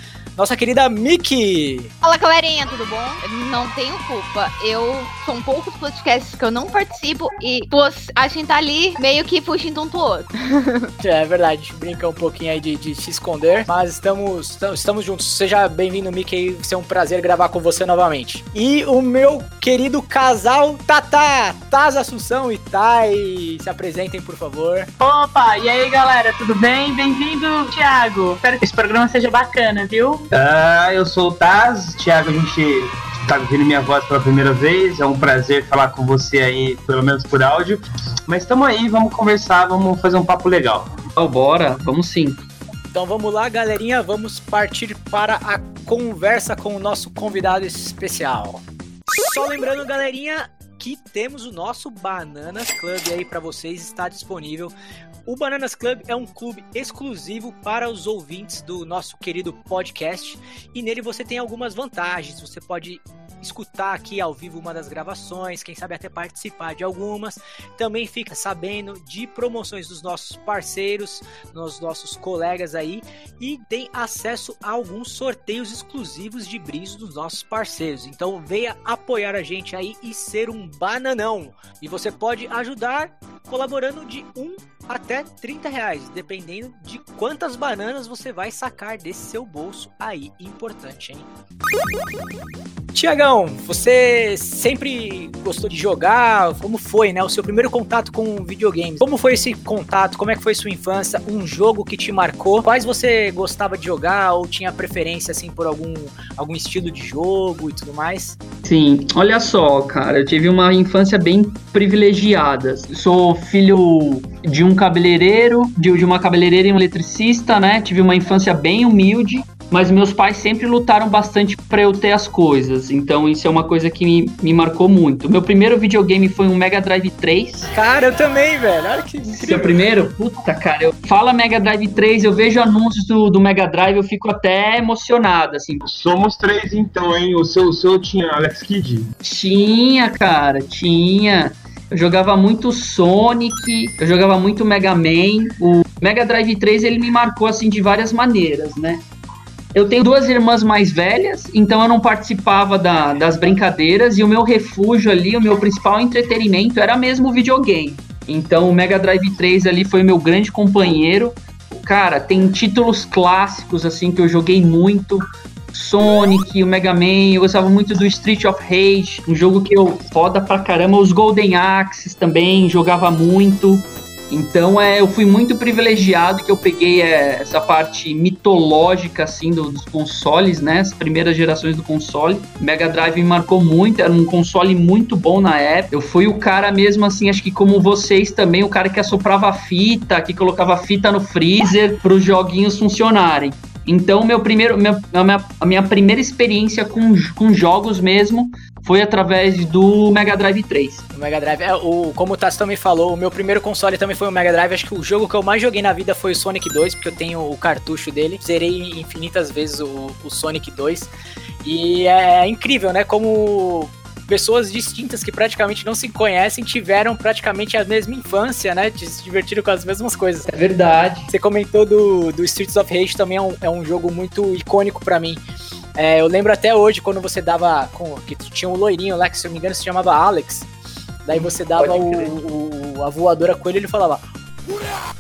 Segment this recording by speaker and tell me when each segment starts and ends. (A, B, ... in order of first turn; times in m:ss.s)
0:00.4-0:01.9 A
0:02.0-0:10.9 B
0:11.0-0:24.9 A
0:25.0-0:30.2 C
0:30.3-0:40.9 D
0:41.2-0:42.4 E
0:42.9-0:54.7 A
0:55.3-1:31.3 A
1:32.9-1:48.4 A
1:48.6-2:07.7 E
2:07.7-2:09.7 A
2:09.3-2:15.8 E
2:15.9-2:19.1 D
2:19.2-2:29.0 E
2:29.7-2:45.2 E
2:45.7-3:21.0 E
3:21.1-3:31.1 A
3:31.6-3:40.5 A
3:40.5-3:41.3 E
3:41.3-3:45.4 A
3:46.0-3:50.7 A
3:51.2-3:55.0 A
3:51.3-3:52.4 E